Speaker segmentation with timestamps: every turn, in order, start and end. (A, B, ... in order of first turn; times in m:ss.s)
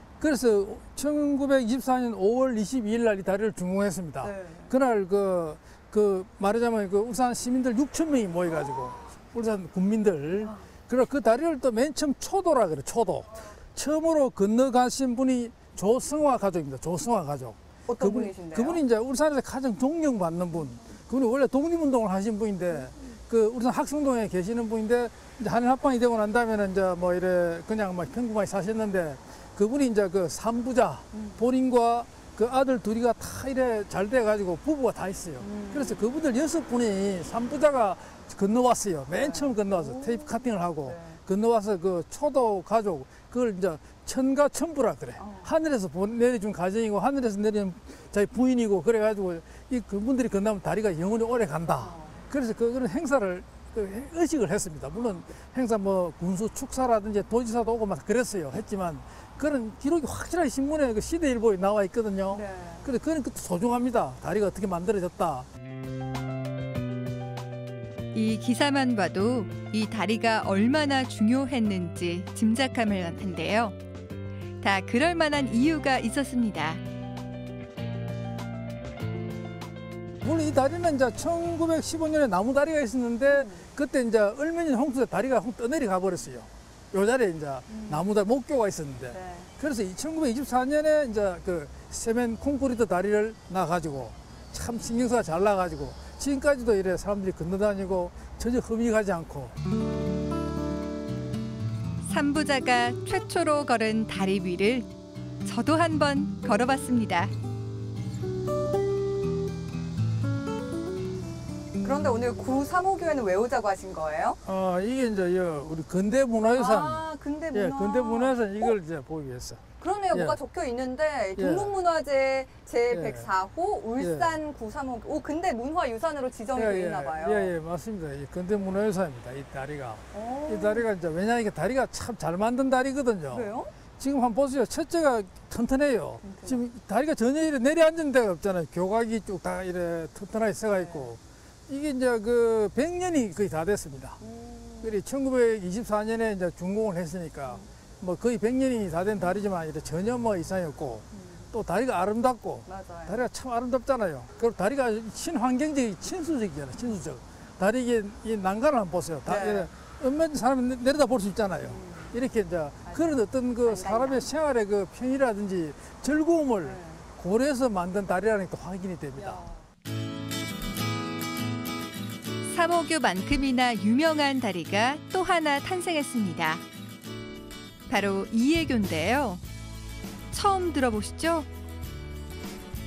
0:00.2-1:05.5 A
0:04.2-0:04.7 B
0:17.9-0:18.8 B
0:31.1-0:31.4 B
0:35.4-0:36.0 B
0:39.1-0:41.2 B
0:45.2-0:45.5 B
0:51.8-0:52.2 B
1:02.3-1:02.9 B
1:08.1-1:13.7 C
1:14.6-1:16.8 C
1:20.2-1:39.5 A
1:23.2-1:23.7 B
1:27.7-1:28.0 B
1:29.1-1:29.5 B
1:42.1-1:44.9 C
1:45.4-1:47.3 C
1:51.8-1:54.4 B
1:54.4-2:00.4 A
1:56.5-1:58.7 B
1:59.8-2:07.5 B
2:01.4-2:01.7 A
2:02.9-2:03.3 A
2:04.0-2:04.4 A
2:06.5-2:24.2 A
2:10.1-2:10.9 B
2:13.3-2:13.7 B
2:16.2-2:16.6 B
2:20.7-2:21.1 B
2:24.2-2:25.0 B
2:24.8-2:49.4 A
2:32.6-2:33.2 B
2:39.2-2:39.7 B
2:41.7-2:42.1 B
2:42.8-2:44.3 B
2:46.6-2:47.0 B
2:49.2-2:49.6 B
2:52.4-2:56.6 C
2:57.9-2:59.4 C
3:00.3-3:01.5 C